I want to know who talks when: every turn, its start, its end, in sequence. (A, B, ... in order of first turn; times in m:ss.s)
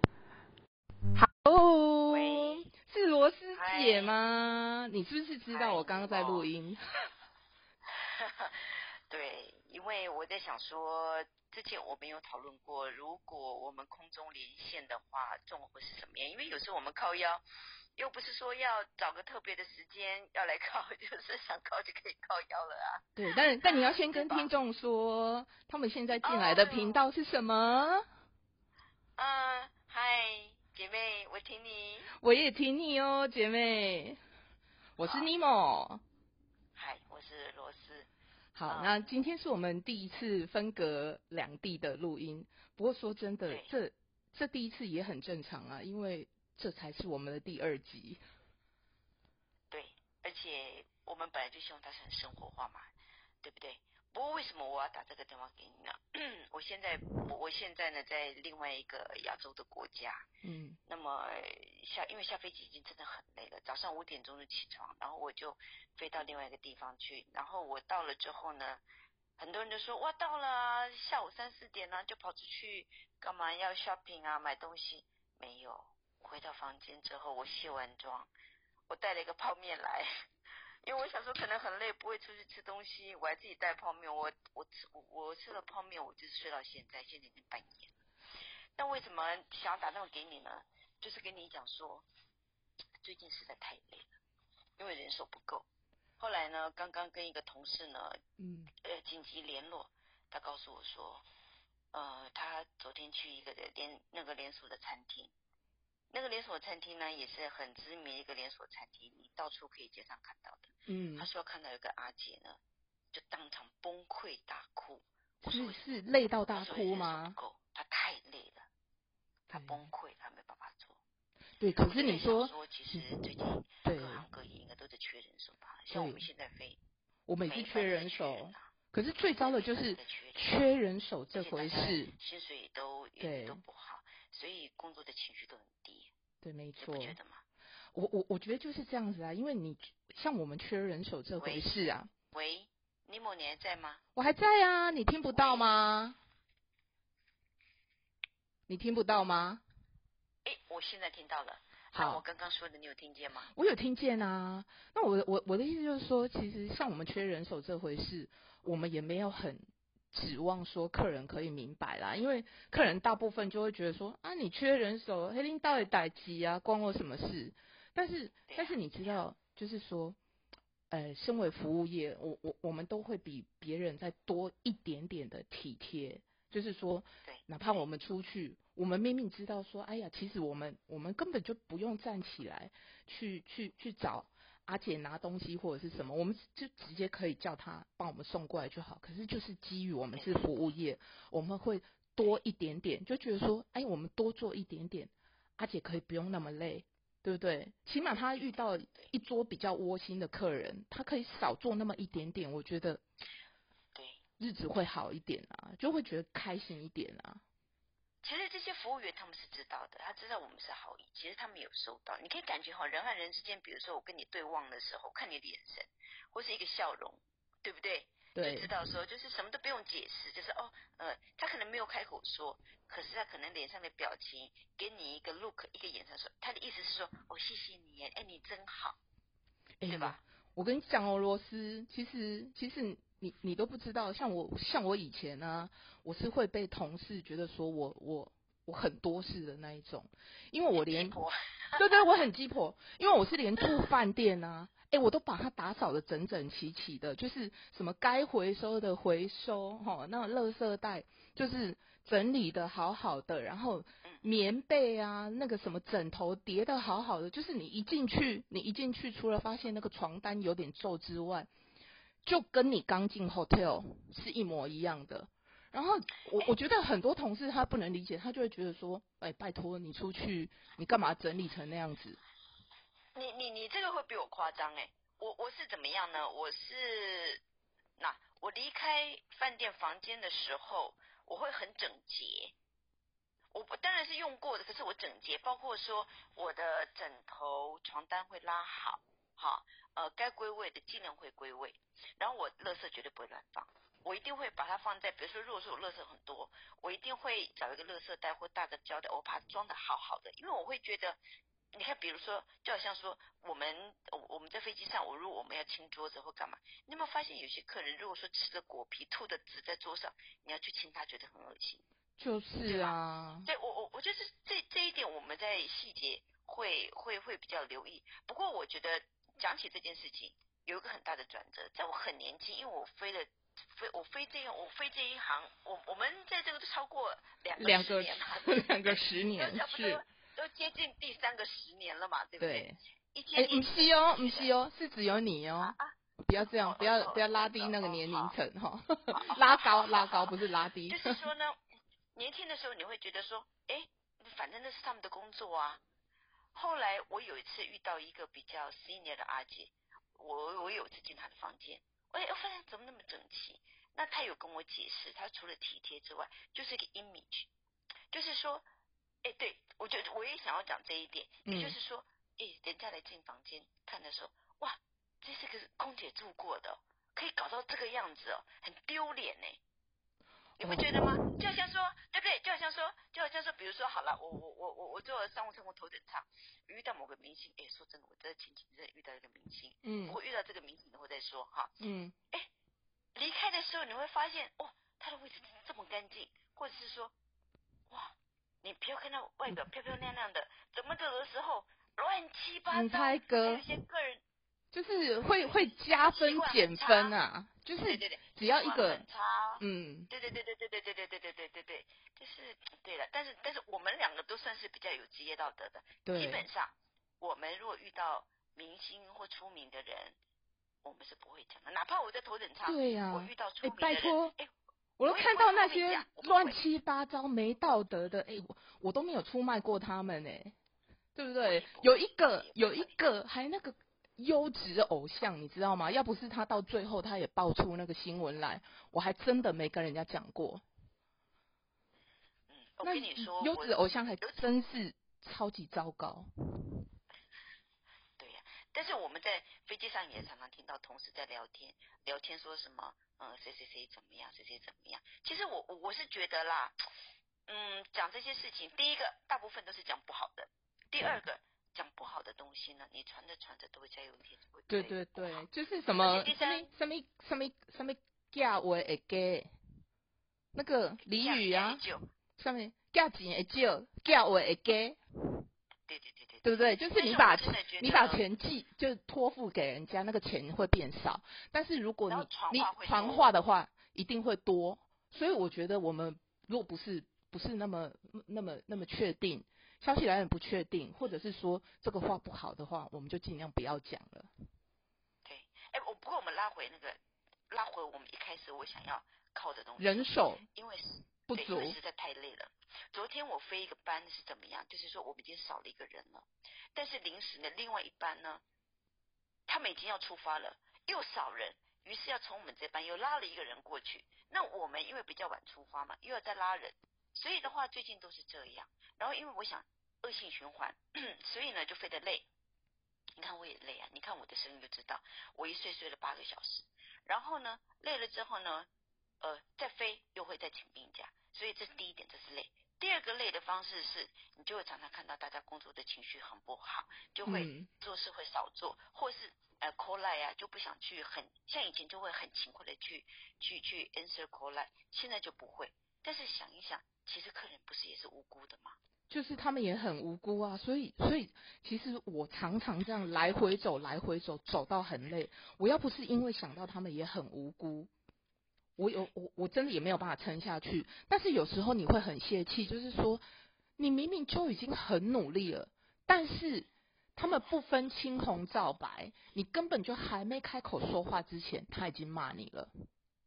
0:01.2-0:06.8 A
0:02.1-0:02.7 B
0:03.5-0:04.2 B
0:05.5-0:06.5 B
0:07.9-0:17.4 B
0:18.0-0:23.1 B
0:23.2-0:28.0 A
0:23.6-0:24.5 B
0:26.2-0:27.0 B
0:29.2-0:32.1 B
0:32.2-0:34.2 A
0:35.0-0:36.0 A
0:35.0-0:35.3 B
0:36.8-0:38.1 B
0:38.6-0:48.2 A
0:38.7-0:39.0 B
0:49.7-0:52.9 B
0:53.4-1:00.3 B
1:00.4-1:00.8 A
1:00.9-1:08.8 B
1:09.4-1:18.3 B
1:18.9-1:20.1 B
1:20.8-1:27.9 B
1:28.8-1:32.1 B
1:33.0-1:34.1 B
1:34.8-1:35.7 B
1:36.2-1:38.2 B
1:38.4-1:38.7 A
1:38.8-1:41.3 B
1:41.9-1:45.3 B
1:46.1-1:52.6 B
1:50.9-1:51.3 A
1:53.1-1:55.8 B
1:55.4-1:57.4 A
1:56.5-1:58.7 B
1:59.5-2:01.0 B
1:59.5-1:59.8 A
2:01.6-2:04.2 A
2:01.9-2:06.8 B
2:05.9-2:06.3 A
2:07.3-2:12.1 A
2:07.5-2:08.7 B
2:09.2-2:10.5 B
2:11.3-2:16.1 B
2:13.2-2:13.6 A
2:16.4-2:17.2 A
2:16.8-2:17.4 B
2:17.9-2:22.1 A
2:21.4-2:24.0 B
2:24.2-2:26.2 A
2:25.3-2:25.7 B
2:28.7-2:29.6 A
2:30.4-2:33.5 B
2:31.9-2:32.2 A
2:33.6-2:50.2 A
2:48.5-2:49.2 B
2:50.9-3:23.0 A
2:57.2-2:57.8 B
3:10.2-3:10.5 B
3:24.0-3:24.2 B
3:24.4-3:27.4 A
3:28.2-3:49.0 B
3:38.3-3:38.7 A
3:49.8-4:01.2 A
3:49.9-3:50.2 B
4:00.8-4:02.0 B
4:01.8-4:21.5 A
4:22.2-4:32.2 A
4:33.2-4:37.4 B
4:38.0-4:42.5 B
4:43.5-5:01.2 B
5:01.7-5:11.8 B
5:12.2-5:13.5 A
5:12.6-5:34.5 B
5:27.6-5:30.0 A
5:32.4-5:32.8 A
5:33.4-5:41.2 A
5:35.6-5:38.4 B
5:39.1-5:40.3 B
5:40.9-5:41.6 B
5:42.2-5:45.8 B
5:46.5-5:57.5 B
5:58.1-5:58.6 B
5:59.2-6:09.6 B
6:01.4-6:01.8 A
6:10.6-6:11.3 A
6:10.6-6:21.8 B
6:19.8-6:20.2 A
6:21.8-6:22.2 A
6:23.2-6:27.1 B
6:27.9-6:34.2 B
6:32.7-6:33.7 A
6:34.7-6:39.0 A
6:35.4-6:37.2 B
6:37.8-6:50.2 B
6:39.6-6:40.1 A
6:46.0-6:46.4 A
6:50.8-6:54.5 B
6:52.6-6:54.3 A
6:55.0-7:00.6 A
6:55.1-6:56.6 B
7:01.2-7:10.6 A
7:01.4-7:02.9 B
7:12.5-7:14.4 B
7:12.8-7:16.6 A
7:18.2-7:26.8 B
7:27.5-7:36.7 B
7:34.7-7:39.5 A
7:40.5-7:41.8 A
7:41.1-7:42.0 B
7:42.4-7:45.4 A
7:45.9-7:48.2 B
7:46.4-8:04.3 A
7:52.1-7:53.4 B
8:05.2-8:07.0 B
8:07.5-8:18.4 B
8:09.8-8:10.4 A
8:11.3-8:11.8 A
8:19.5-8:32.3 B
8:33.2-8:38.7 B
8:39.2-8:58.8 B
8:47.2-8:47.7 A
8:59.1-9:07.9 A
9:08.8-9:13.2 A
9:13.8-9:22.7 A